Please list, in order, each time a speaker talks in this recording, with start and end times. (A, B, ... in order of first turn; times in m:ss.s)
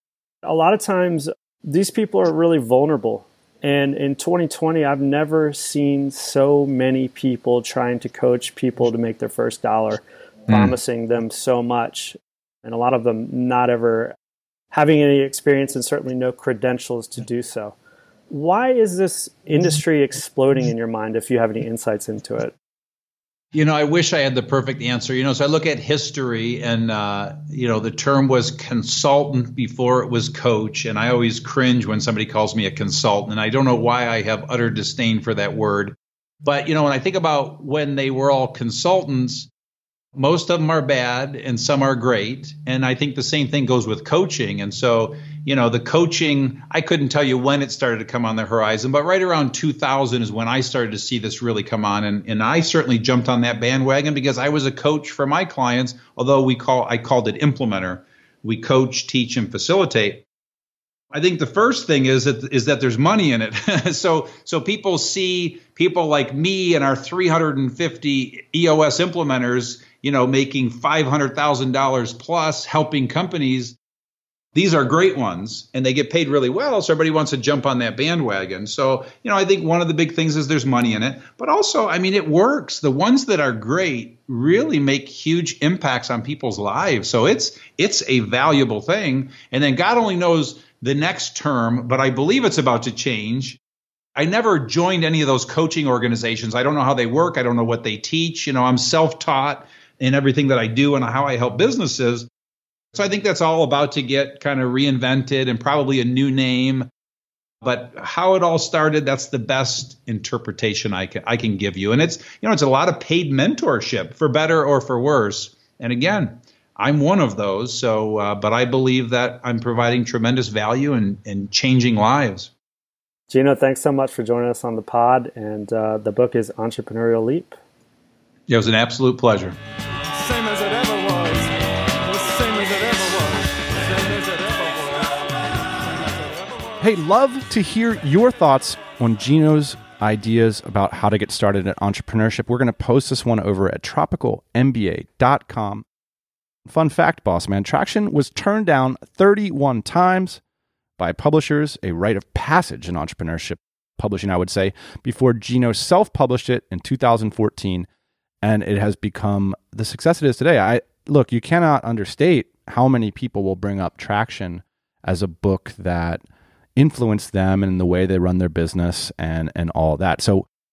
0:00.4-0:14.2 A
0:10.5-0:10.7 B
0:14.7-0:17.8 A
0:18.3-0:22.5 A
0:23.5-0:39.5 B
0:40.2-1:00.2 B
1:01.1-1:13.8 B
1:14.6-1:33.6 B
1:34.2-1:42.3 B
1:42.9-1:46.9 B
1:47.6-2:02.5 B
2:03.3-2:07.6 A
2:08.5-2:09.6 B
2:10.3-2:11.3 C
2:12.1-2:13.4 C
2:13.9-2:14.9 C
2:16.8-2:25.8 D
2:26.7-2:30.4 D
2:31.0-2:37.9 D
2:38.4-2:46.2 D
2:46.8-2:50.5 D